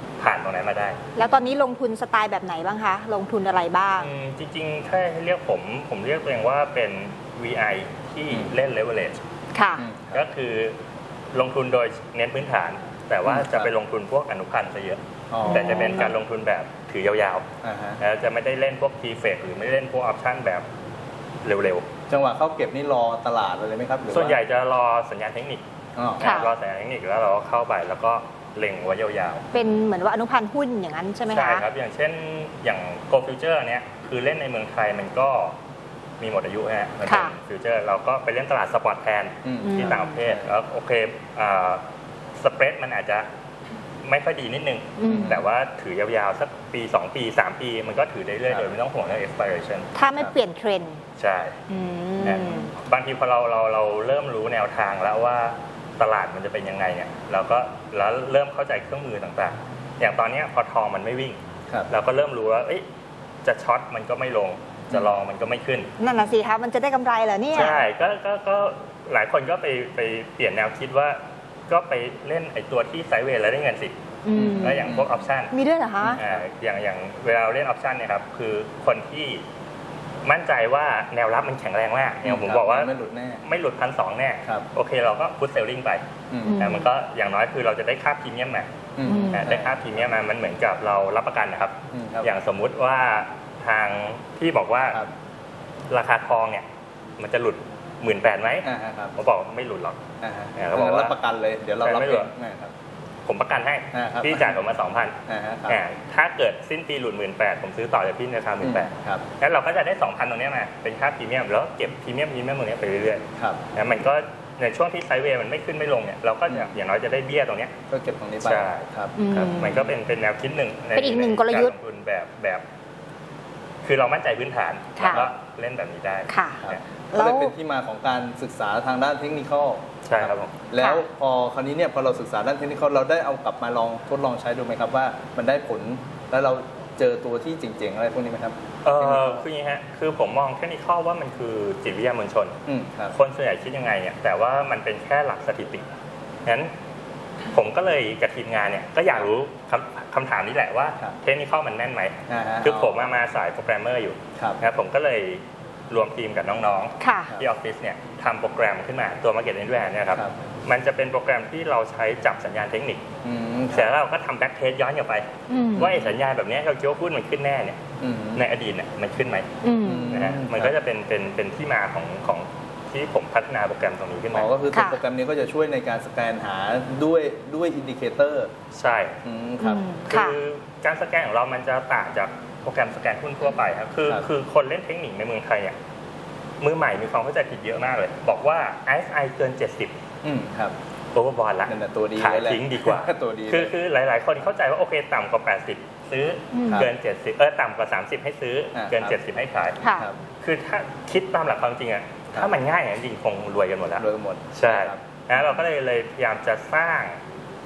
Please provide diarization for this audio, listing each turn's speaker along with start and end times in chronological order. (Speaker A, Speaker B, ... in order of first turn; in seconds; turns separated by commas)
Speaker A: 0.2-1.0, Speaker B: 1.1-4.1, Speaker A: 4.0-9.2, Speaker B: 9.5-9.9, Speaker C: 9.8-10.2, Speaker A: 10.1-10.8, Speaker A: 11.3-17.5, Speaker C: 13.2-13.7, Speaker C: 15.3-16.1, Speaker B: 15.4-16.1, Speaker C: 17.6-18.0, Speaker A: 18.0-20.6, Speaker A: 21.4-21.9, Speaker C: 22.1-24.4, Speaker A: 24.1-25.6, Speaker C: 25.9-26.4, Speaker A: 26.2-29.5, Speaker B: 26.2-26.5, Speaker B: 29.5-31.6, Speaker A: 31.3-35.5, Speaker A: 36.2-41.8, Speaker B: 37.0-37.3, Speaker C: 39.4-40.5, Speaker B: 39.6-40.1, Speaker A: 42.4-43.2, Speaker A: 44.0-49.9, Speaker B: 45.0-45.4, Speaker C: 45.1-45.4, Speaker B: 49.9-51.0, Speaker A: 51.2-51.6, Speaker B: 51.7-52.7, Speaker A: 52.2-61.4, Speaker A: 61.9-62.8, Speaker A: 63.4-65.9, Speaker B: 66.0-67.8, Speaker A: 67.5-73.9, Speaker B: 74.2-74.9, Speaker C: 74.3-75.2, Speaker A: 74.6-75.5, Speaker B: 75.5-76.2, Speaker C: 76.0-76.4, Speaker A: 76.2-79.4, Speaker A: 80.2-82.9, Speaker C: 82.2-83.4, Speaker A: 83.4-86.1, Speaker C: 86.3-86.7, Speaker B: 86.4-86.9, Speaker A: 86.6-88.7, Speaker C: 89.0-90.0, Speaker B: 89.0-89.4, Speaker A: 89.3-95.0, Speaker C: 91.9-92.3, Speaker A: 95.9-96.6, Speaker A: 97.2-100.0, Speaker C: 98.6-99.2, Speaker C: 100.2-102.7, Speaker A: 100.5-101.2, Speaker A: 101.8-102.3, Speaker A: 103.2-117.7, Speaker C: 103.9-104.5, Speaker C: 105.2-105.8, Speaker C: 108.6-109.2, Speaker C: 113.3-113.6, Speaker C: 116.5-116.7, Speaker C: 117.9-119.1, Speaker A: 118.4-122.6, Speaker B: 119.2-119.8, Speaker B: 121.0-121.7, Speaker A: 123.8-126.8, Speaker B: 125.0-125.2, Speaker C: 125.0-125.3, Speaker B: 126.3-127.5, Speaker C: 126.6-139.4, Speaker A: 130.0-130.5, Speaker A: 138.8-142.6, Speaker C: 142.7-143.1, Speaker A: 143.1-145.8, Speaker A: 146.4-146.7, Speaker A: 147.5-163.1, Speaker C: 152.3-153.0, Speaker C: 154.3-154.6, Speaker B: 157.0-157.4, Speaker C: 163.2-163.9, Speaker A: 163.7-167.8, Speaker B: 165.5-165.9, Speaker C: 165.8-166.1, Speaker C: 168.0-168.4, Speaker A: 168.3-169.6, Speaker B: 169.6-170.3, Speaker C: 169.8-170.7, Speaker A: 170.1-174.5, Speaker C: 174.3-178.5, Speaker B: 174.7-175.0, Speaker A: 178.7-179.2, Speaker C: 179.2-179.8, Speaker B: 179.6-180.3, Speaker A: 180.1-185.7, Speaker A: 186.6-189.9, Speaker C: 190.2-190.8, Speaker A: 191.1-199.8, Speaker C: 191.7-193.7, Speaker B: 196.5-196.8, Speaker C: 198.7-199.2, Speaker B: 199.8-200.1, Speaker A: 200.4-207.2, Speaker C: 204.0-205.0